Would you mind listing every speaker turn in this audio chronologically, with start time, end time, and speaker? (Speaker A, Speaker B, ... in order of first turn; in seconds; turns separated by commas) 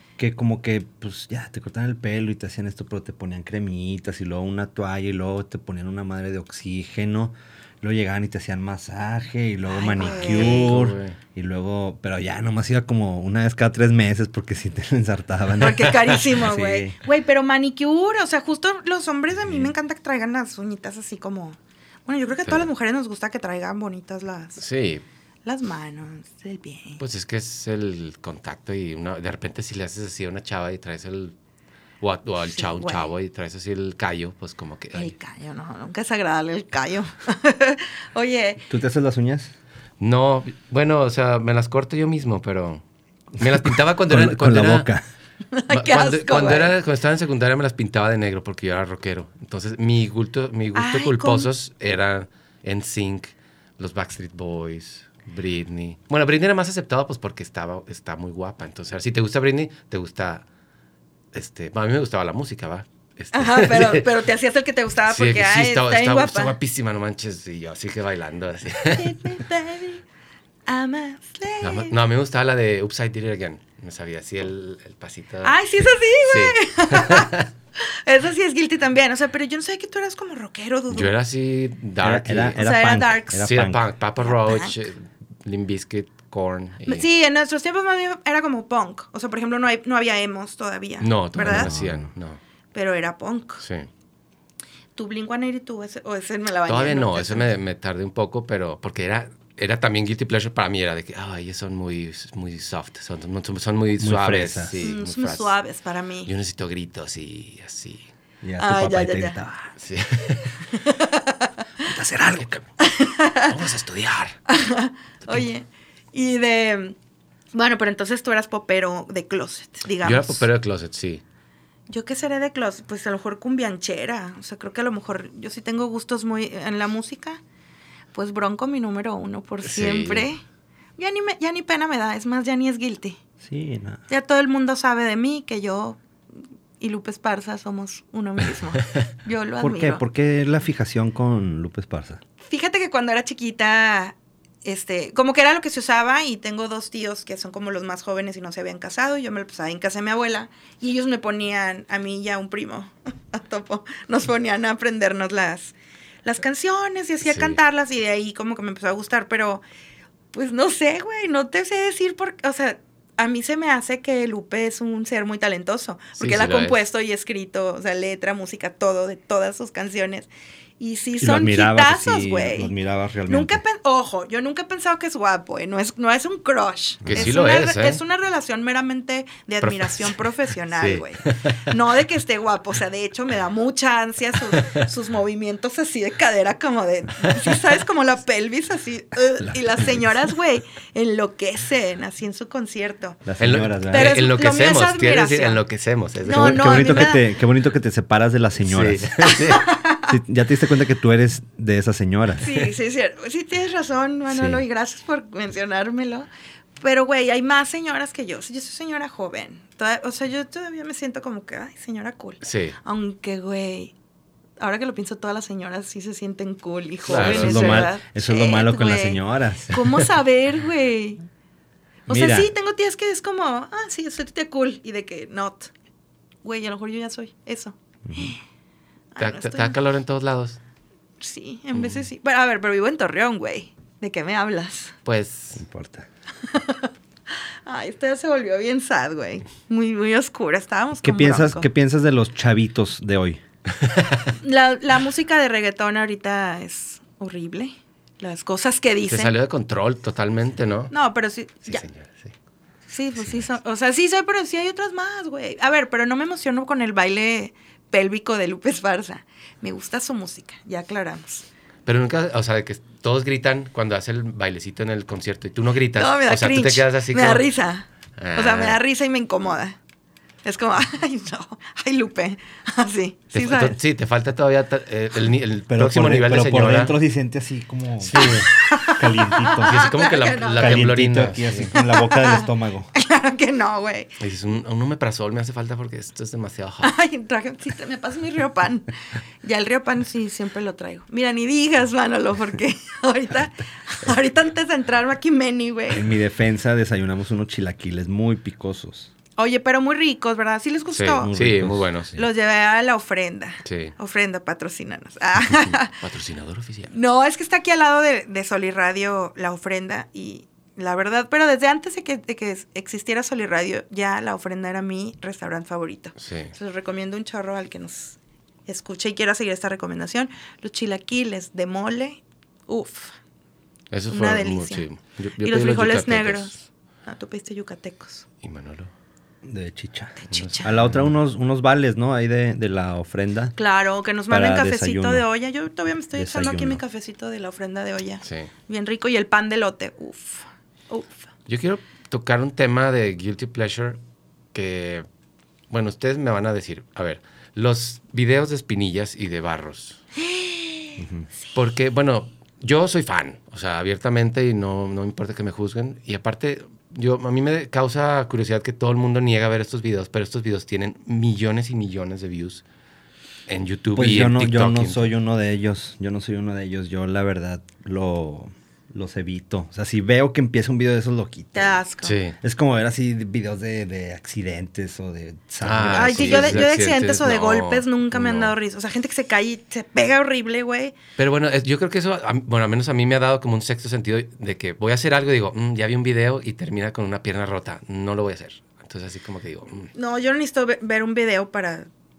Speaker A: 0.2-17.0, Speaker B: 9.7-10.7, Speaker C: 10.1-11.2, Speaker B: 15.6-24.6, Speaker C: 24.6-25.0, Speaker B: 25.4-27.0, Speaker C: 27.0-31.3, Speaker C: 32.0-35.1, Speaker B: 32.4-33.1, Speaker B: 34.9-38.6, Speaker A: 38.7-39.5, Speaker C: 40.0-42.8, Speaker C: 43.4-44.9, Speaker A: 43.4-45.0, Speaker B: 45.5-46.7, Speaker C: 45.7-60.4, Speaker B: 50.7-51.5, Speaker C: 61.3-64.1, Speaker B: 63.3-66.5, Speaker C: 65.1-69.2, Speaker B: 68.9-70.0, Speaker B: 70.7-71.9, Speaker C: 71.6-75.6, Speaker B: 75.4-81.1, Speaker C: 76.2-77.4, Speaker C: 80.9-82.6, Speaker A: 82.0-83.8, Speaker B: 82.6-83.5, Speaker C: 83.3-87.0, Speaker B: 84.2-84.7, Speaker B: 86.8-91.7, Speaker C: 91.0-92.4, Speaker A: 91.4-92.1, Speaker B: 92.7-93.6, Speaker C: 93.6-93.9, Speaker B: 95.0-97.5, Speaker C: 96.7-105.5, Speaker A: 104.0-104.8, Speaker B: 104.8-106.3, Speaker C: 106.2-108.1, Speaker A: 108.4-109.7, Speaker B: 108.6-109.4, Speaker C: 109.8-110.6, Speaker B: 110.7-111.6, Speaker A: 111.8-112.6, Speaker B: 112.8-113.5, Speaker C: 113.5-114.4, Speaker B: 114.5-117.0, Speaker B: 117.5-120.5, Speaker C: 120.0-121.2, Speaker B: 121.9-127.4, Speaker B: 128.1-130.4, Speaker C: 129.6-130.3, Speaker B: 131.0-133.2, Speaker A: 133.4-134.0, Speaker B: 134.1-136.0, Speaker B: 136.8-140.0, Speaker A: 139.6-142.2, Speaker B: 142.4-155.7, Speaker B: 156.2-159.6, Speaker C: 157.2-157.6, Speaker B: 160.3-170.3, Speaker C: 166.2-166.8, Speaker B: 170.8-172.7, Speaker A: 171.2-173.6, Speaker B: 173.3-193.2, Speaker A: 177.0-177.4, Speaker C: 177.1-178.0, Speaker C: 179.6-180.1, Speaker C: 180.7-181.7, Speaker A: 189.4-190.0, Speaker A: 193.2-194.1, Speaker C: 193.4-197.0, Speaker B: 193.9-195.6, Speaker B: 196.2-197.2, Speaker A: 196.3-199.1, Speaker C: 198.6-199.7, Speaker B: 199.2-200.1, Speaker A: 200.1-202.5, Speaker B: 202.4-206.3, Speaker A: 204.3-204.6, Speaker B: 206.8-213.9, Speaker C: 212.4-212.8, Speaker B: 214.6-221.2, Speaker C: 217.1-217.9, Speaker A: 217.1-219.7, Speaker B: 222.1-225.7, Speaker A: 222.1-222.5, Speaker B: 226.4-228.4, Speaker A: 228.1-228.3, Speaker B: 229.1-229.8, Speaker C: 229.2-230.6, Speaker B: 231.2-234.9, Speaker C: 235.0-235.6, Speaker A: 235.6-236.1, Speaker B: 236.5-236.9, Speaker B: 237.6-241.7, Speaker A: 241.0-243.4, Speaker B: 244.4-249.3, Speaker C: 249.1-250.9, Speaker B: 250.9-251.8, Speaker C: 251.7-252.3, Speaker B: 252.9-261.4, Speaker C: 253.2-253.4, Speaker C: 261.9-267.5, Speaker B: 265.9-269.8, Speaker C: 268.2-268.8, Speaker B: 270.4-273.8, Speaker C: 273.3-276.9, Speaker A: 275.7-279.9, Speaker C: 278.0-278.5, Speaker B: 278.2-280.8, Speaker C: 279.6-281.7, Speaker A: 280.6-282.9, Speaker B: 281.7-284.1, Speaker C: 284.2-286.9, Speaker B: 286.8-288.9, Speaker B: 289.4-296.1, Speaker A: 295.9-299.1, Speaker B: 299.4-301.3, Speaker C: 300.9-302.1, Speaker A: 301.2-302.2, Speaker B: 302.1-306.0, Speaker C: 303.6-303.9, Speaker C: 305.5-306.9, Speaker B: 306.9-323.1, Speaker C: 316.1-316.5, Speaker C: 323.9-326.5, Speaker B: 324.1-324.8, Speaker B: 325.4-328.2, Speaker C: 328.4-328.9, Speaker A: 329.4-333.6, Speaker B: 330.2-330.7, Speaker C: 330.3-330.9, Speaker B: 333.6-341.2, Speaker A: 334.3-335.2, Speaker A: 336.1-336.8, Speaker C: 338.2-338.5, Speaker C: 341.5-344.0, Speaker C: 344.5-345.1, Speaker C: 345.7-350.0, Speaker B: 350.1-351.1, Speaker A: 351.0-351.3, Speaker C: 351.5-362.6, Speaker C: 363.5-365.1, Speaker A: 363.9-371.8, Speaker B: 371.5-372.2, Speaker C: 372.0-372.4, Speaker A: 372.4-376.7, Speaker C: 375.6-378.5, Speaker B: 375.9-380.9, Speaker C: 381.2-389.9, Speaker B: 389.9-391.9